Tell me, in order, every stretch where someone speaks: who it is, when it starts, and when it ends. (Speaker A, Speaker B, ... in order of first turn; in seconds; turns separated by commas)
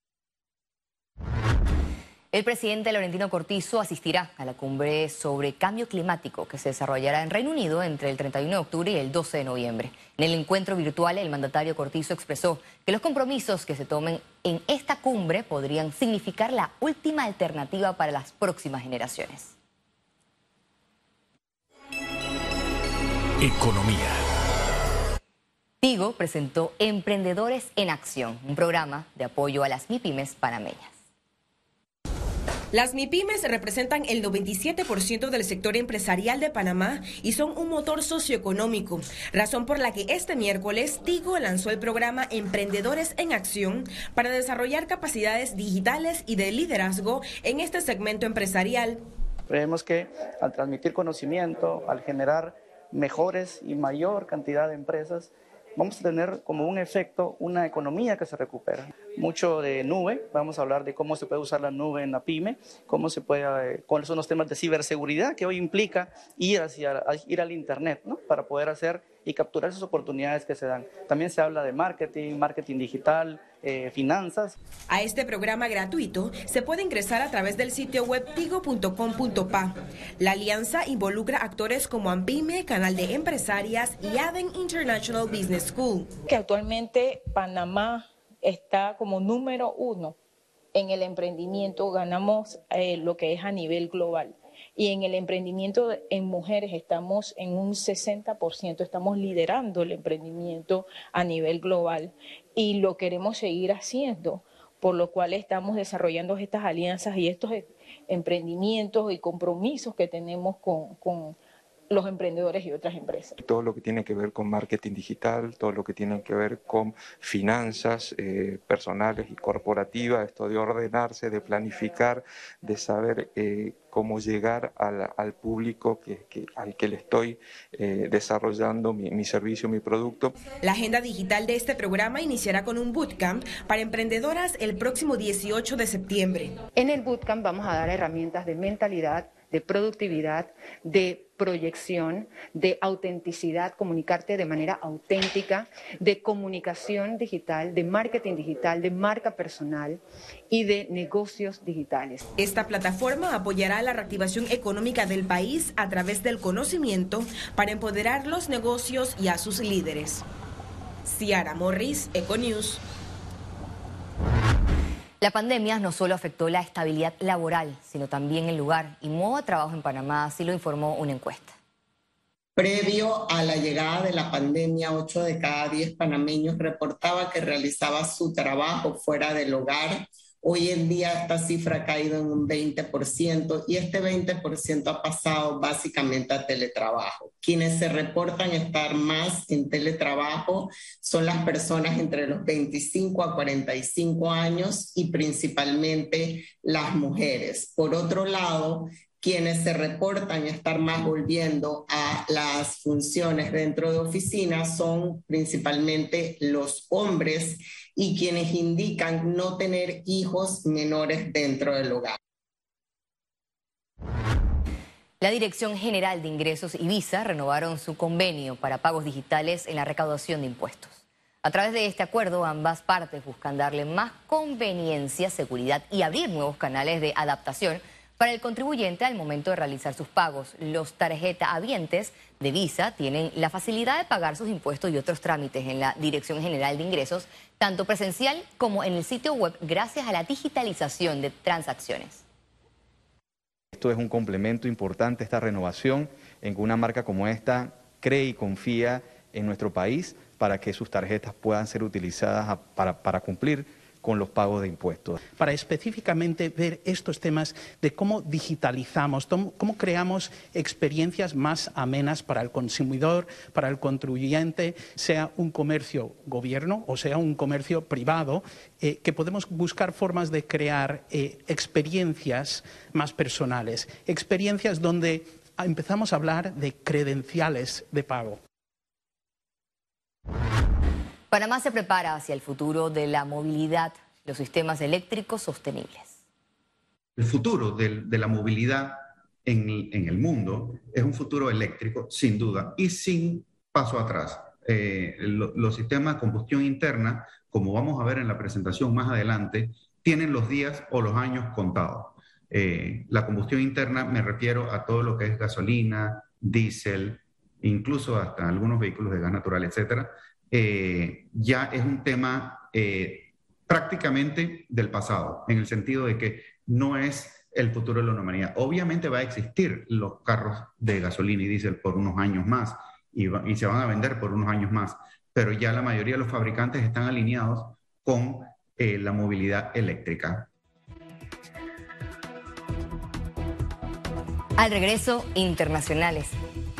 Speaker A: 2.3-19.5, Speaker A: 25.8-30.9, Speaker B: 32.8-49.0, Speaker C: 49.5-74.5, Speaker B: 75.0-86.1, Speaker D: 86.3-90.1, Speaker D: 90.7-102.0, Speaker D: 102.5-111.3, Speaker D: 111.9-113.3, Speaker E: 113.4-130.3, Speaker B: 130.6-136.5, Speaker F: 136.8-150.0, Speaker F: 150.5-152.2, Speaker B: 152.4-160.2, Speaker B: 161.1-162.8, Speaker A: 165.2-171.6, Speaker G: 172.6-212.2, Speaker A: 215.2-242.2, Speaker H: 243.7-255.2, Speaker I: 255.3-278.4, Speaker A: 281.3-286.1, Speaker J: 287.2-330.5, Speaker A: 334.6-336.3